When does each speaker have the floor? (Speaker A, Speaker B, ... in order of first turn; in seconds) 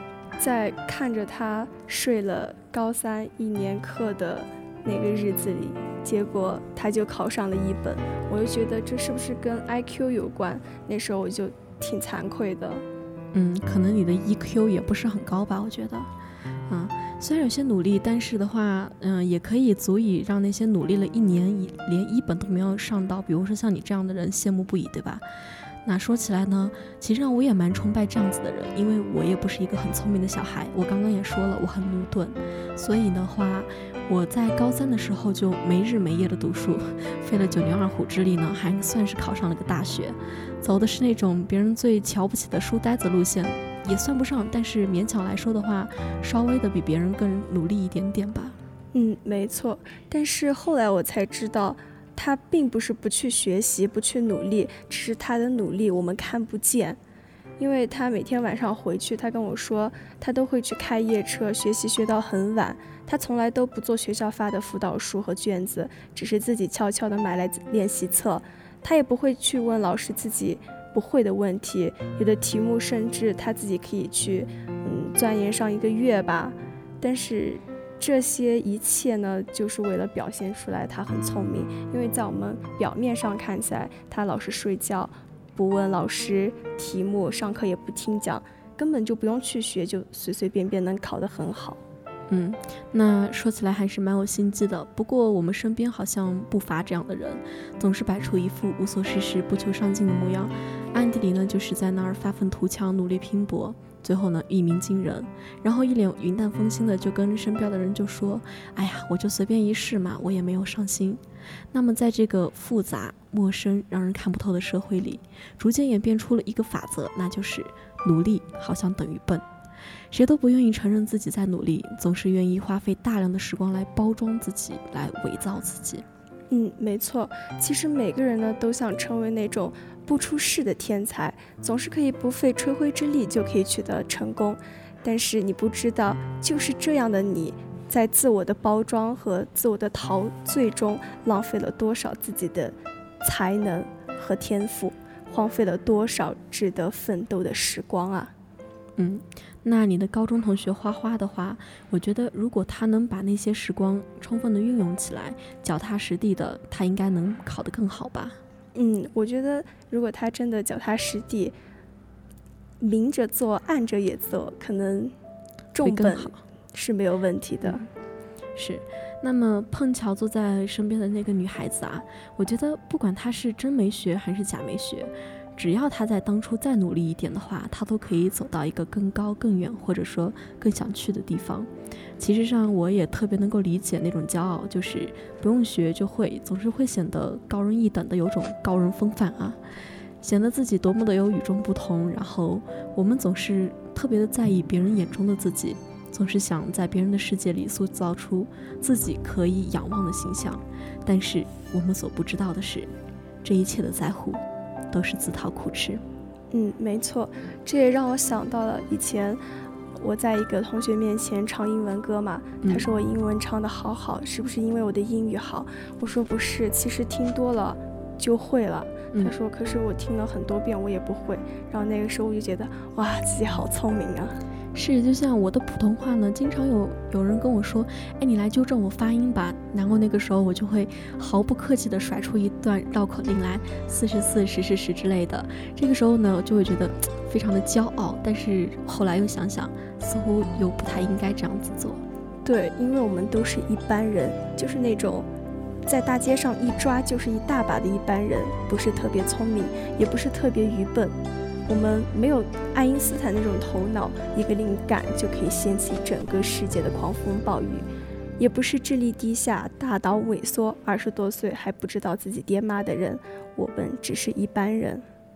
Speaker A: 0.4-12.8, 48.9-57.0, 57.6-91.8, 126.5-148.3, 158.7-161.5, 162.8-165.1, 165.7-167.8, 206.5-209.4, 210.0-224.4, 242.4-245.3, 245.8-251.1, 251.7-257.9, 258.4-265.0
Speaker B: 13.3-16.1, 16.7-25.2, 25.8-48.6, 92.3-111.2, 111.7-119.4, 120.1-126.0, 149.0-158.4, 165.8-166.4, 168.6-189.6, 190.2-202.9, 203.4-206.0, 224.7-242.0